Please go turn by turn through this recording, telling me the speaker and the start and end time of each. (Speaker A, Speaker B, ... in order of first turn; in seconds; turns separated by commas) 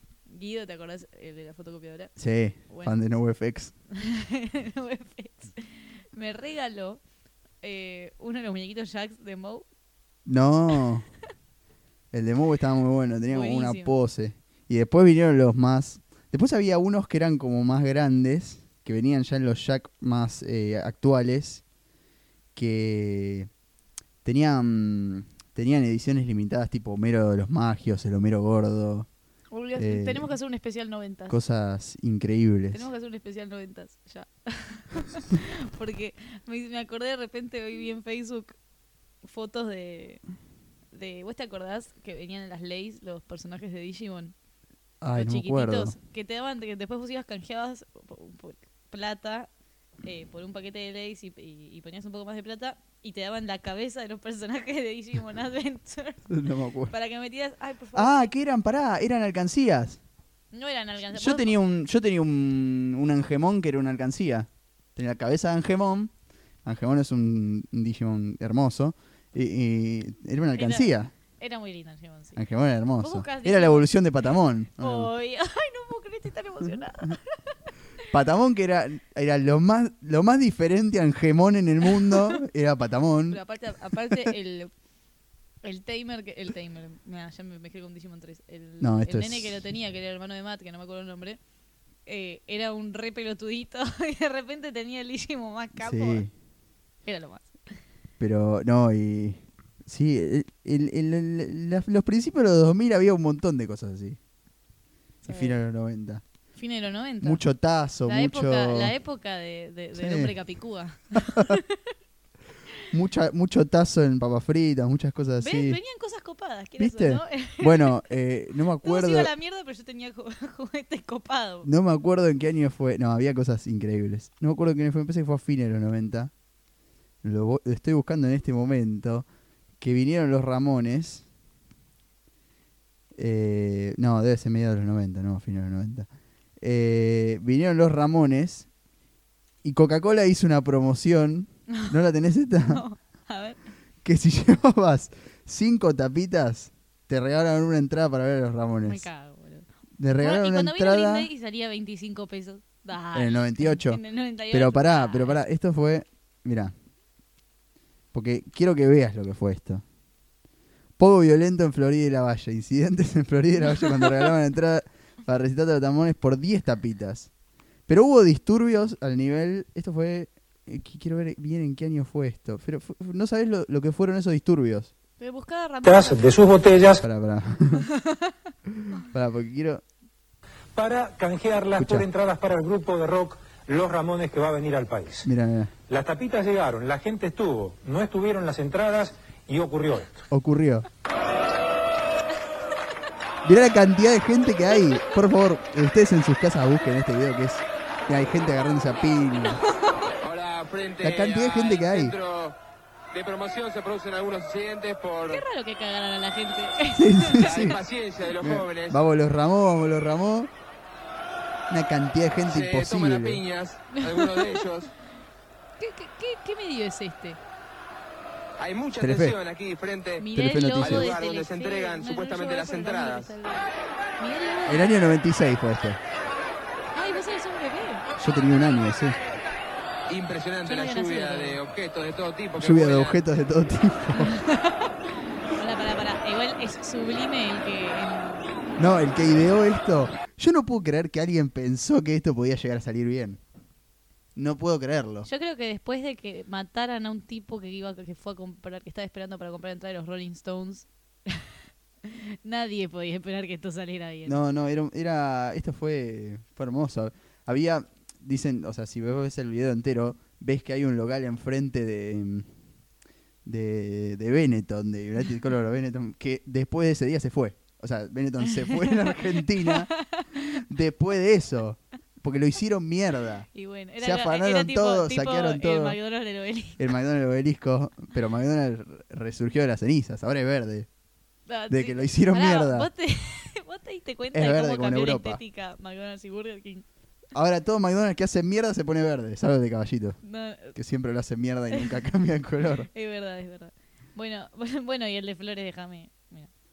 Speaker A: 0.3-2.1, Speaker B: 2.2-3.7, Speaker A: 2.7-3.0, Speaker A: 3.9-7.0, Speaker A: 7.6-9.7, Speaker B: 10.3-11.1, Speaker B: 12.1-21.6, Speaker A: 13.3-13.9, Speaker B: 22.6-23.5, Speaker B: 24.2-29.1, Speaker A: 29.5-31.4, Speaker B: 29.8-30.3, Speaker B: 31.3-32.9, Speaker A: 32.7-38.5, Speaker A: 39.2-40.2, Speaker A: 40.9-44.4, Speaker B: 45.0-46.0, Speaker A: 45.1-49.5, Speaker A: 50.0-56.2, Speaker B: 56.3-56.9, Speaker A: 56.9-58.3, Speaker B: 57.9-60.0, Speaker A: 60.5-61.5, Speaker B: 61.1-66.1, Speaker B: 66.6-71.1, Speaker A: 70.6-72.4, Speaker B: 72.4-75.1, Speaker A: 73.0-73.9, Speaker A: 74.8-77.6, Speaker B: 78.1-83.4, Speaker A: 82.0-82.4, Speaker A: 83.3-84.7, Speaker A: 85.6-91.4, Speaker B: 88.8-89.5, Speaker A: 92.1-96.3, Speaker B: 95.8-96.3, Speaker A: 97.1-97.8, Speaker B: 98.2-104.2, Speaker A: 105.2-105.6, Speaker B: 105.3-106.2, Speaker A: 106.6-107.4, Speaker B: 107.2-108.9, Speaker A: 108.0-111.8, Speaker B: 110.0-110.3, Speaker B: 111.2-111.6, Speaker B: 112.9-115.8, Speaker A: 115.4-118.1, Speaker B: 116.8-119.3, Speaker A: 118.8-121.7, Speaker B: 121.7-126.3, Speaker B: 127.2-129.3, Speaker B: 129.8-131.3, Speaker B: 133.2-136.1, Speaker B: 136.6-138.7, Speaker B: 139.6-142.8, Speaker A: 142.7-143.6, Speaker B: 144.0-149.1, Speaker A: 148.8-149.7, Speaker B: 150.0-151.3, Speaker A: 150.2-155.4, Speaker B: 153.1-156.7, Speaker B: 158.1-159.8, Speaker B: 161.0-167.3, Speaker B: 167.9-174.9, Speaker A: 175.2-176.3, Speaker C: 175.8-177.0, Speaker B: 177.0-177.9, Speaker A: 178.0-178.3, Speaker B: 178.9-179.8, Speaker C: 180.7-185.3, Speaker B: 181.8-182.1, Speaker B: 185.2-185.7, Speaker C: 185.9-190.2, Speaker B: 190.3-190.8, Speaker B: 193.4-199.6, Speaker A: 199.6-200.1, Speaker D: 200.2-202.6, Speaker B: 201.0-202.2, Speaker D: 203.1-205.4, Speaker A: 205.3-207.8, Speaker B: 206.9-210.5, Speaker D: 207.4-209.0, Speaker B: 211.7-213.4, Speaker D: 212.4-214.9, Speaker A: 213.9-214.7, Speaker A: 215.8-217.4, Speaker D: 218.6-223.3, Speaker B: 219.0-219.4, Speaker A: 220.2-225.0, Speaker B: 220.3-221.2, Speaker B: 224.7-226.0, Speaker A: 226.9-228.1, Speaker B: 228.2-229.2, Speaker D: 230.1-233.2, Speaker A: 230.6-231.6, Speaker B: 232.6-234.4, Speaker A: 234.1-238.6, Speaker B: 238.8-243.4, Speaker B: 244.4-245.3, Speaker A: 245.2-251.5, Speaker A: 252.0-254.4, Speaker B: 254.3-262.5, Speaker B: 263.4-269.9, Speaker A: 268.5-270.6, Speaker B: 270.6-273.5, Speaker A: 273.5-276.9, Speaker B: 274.0-276.0, Speaker B: 276.8-280.9, Speaker A: 281.5-286.9, Speaker B: 281.7-282.9, Speaker B: 284.3-285.4, Speaker B: 287.3-290.2, Speaker A: 290.2-290.8, Speaker B: 290.7-292.9, Speaker A: 292.9-296.5